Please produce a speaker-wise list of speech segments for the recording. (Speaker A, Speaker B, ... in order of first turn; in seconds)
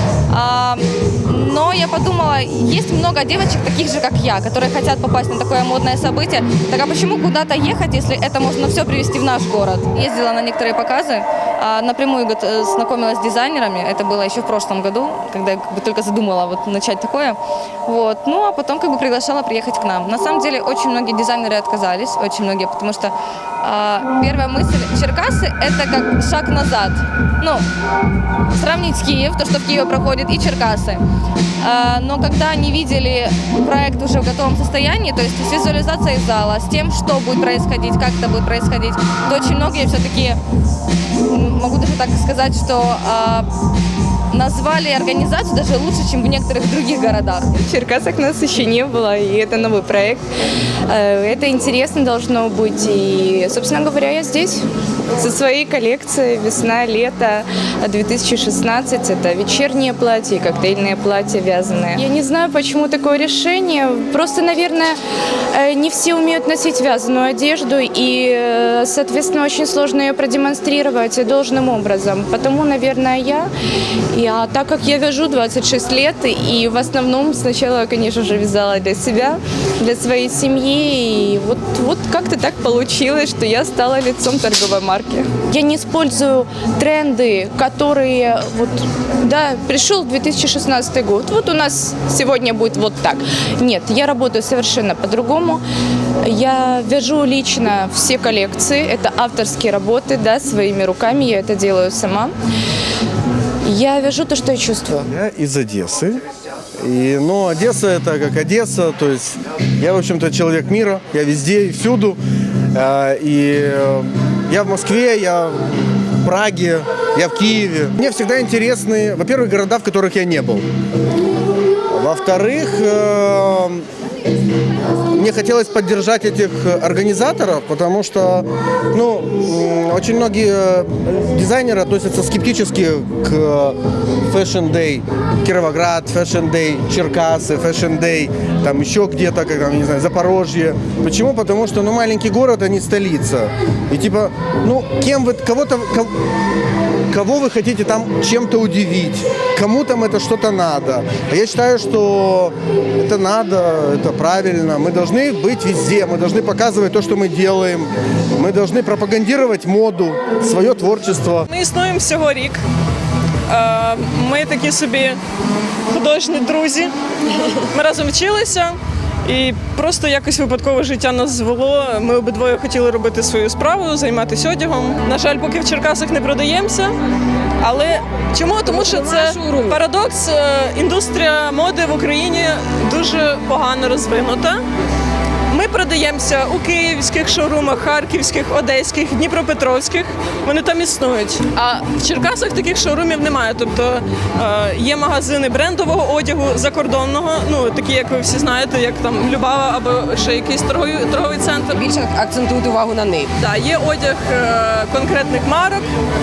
Speaker A: 0.3-27.6, 28.5-31.0, 31.6-40.4, 41.3-43.5, 44.3-47.5
Speaker B: 47.5-50.2, 50.9-65.0, 65.5-73.5, 74.1-95.6, 96.2-102.3, 103.6-105.1
Speaker C: 105.1-106.2, 106.8-112.2, 112.7-120.7, 121.9-123.8, 125.1-146.1, 147.1-161.5
Speaker D: 161.5-162.6, 163.5-165.2, 165.9-166.9, 167.7-176.9, 177.6-184.6, 185.5-201.9, 203.3-205.9
Speaker E: 178.9-179.7, 201.8-203.3